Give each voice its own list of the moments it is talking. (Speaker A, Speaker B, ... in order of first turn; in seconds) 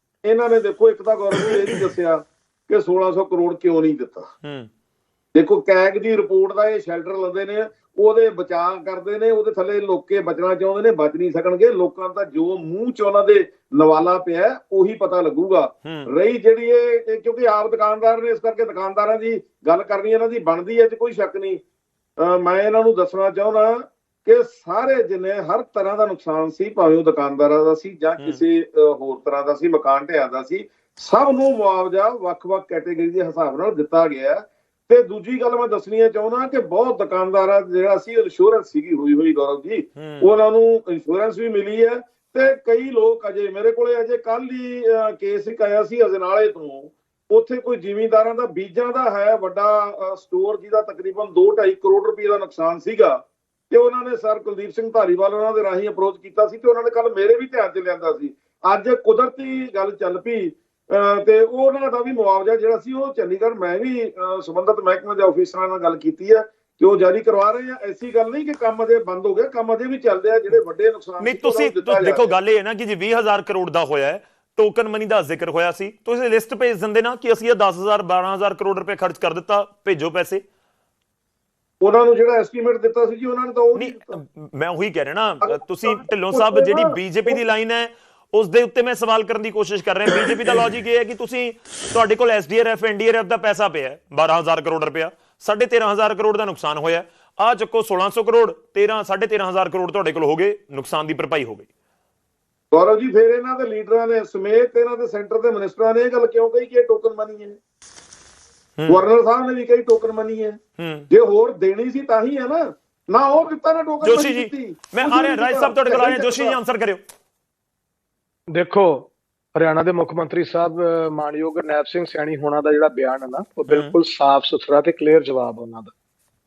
Speaker A: 0.2-4.3, 5.3-21.6, 22.2-72.3, 81.8-84.2, 85.4-87.4, 102.7-107.6, 108.9-110.6, 111.1-116.6
Speaker B: 1.3-1.8, 4.4-4.7, 40.0-40.3, 71.2-80.4, 83.8-101.7, 110.8-111.0, 114.0-117.0, 123.7-124.0
Speaker C: 118.5-125.9